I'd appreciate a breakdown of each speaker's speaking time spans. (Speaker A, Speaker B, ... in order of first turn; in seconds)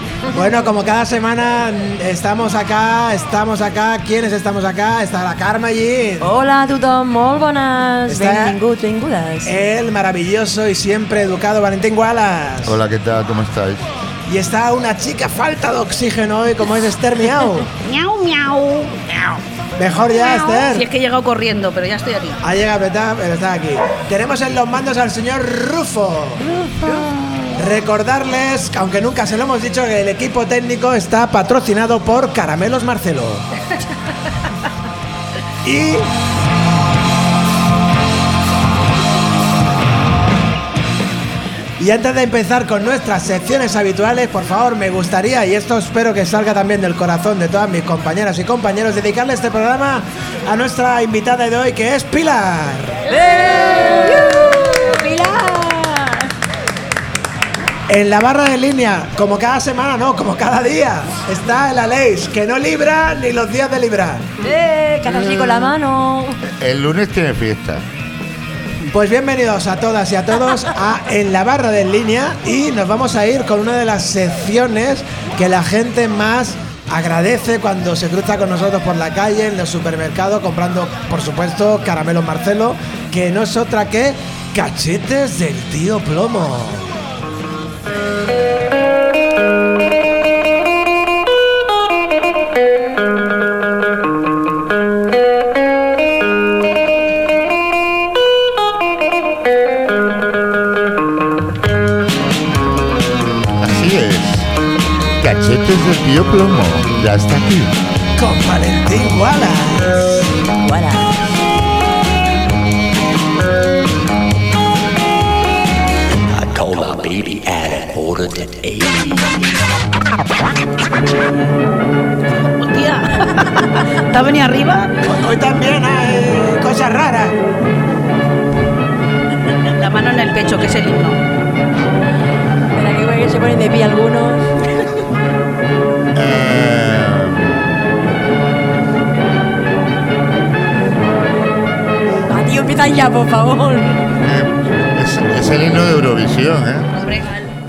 Speaker A: 0.3-6.3, 8.1-8.6, 9.4-12.8, 14.3-17.7, 19.8-20.9, 22.4-26.4, 27.5-33.5, 35.6-36.1, 41.8-53.0, 57.9-64.3, 68.9-87.0, 108.2-110.3, 125.0-127.4
Speaker B: 6.2-9.5, 26.5-27.3, 53.1-56.3, 64.4-66.4, 110.5-111.2, 132.7-134.6, 142.3-144.0
Speaker C: 12.6-13.8, 65.2-65.7, 66.6-67.8, 103.5-104.5, 105.2-107.7, 136.1-137.6, 144.2-146.9
Speaker D: 17.8-19.4, 20.1-22.4, 122.6-124.9, 129.7-131.2, 146.9-147.5
Speaker E: 116.3-119.0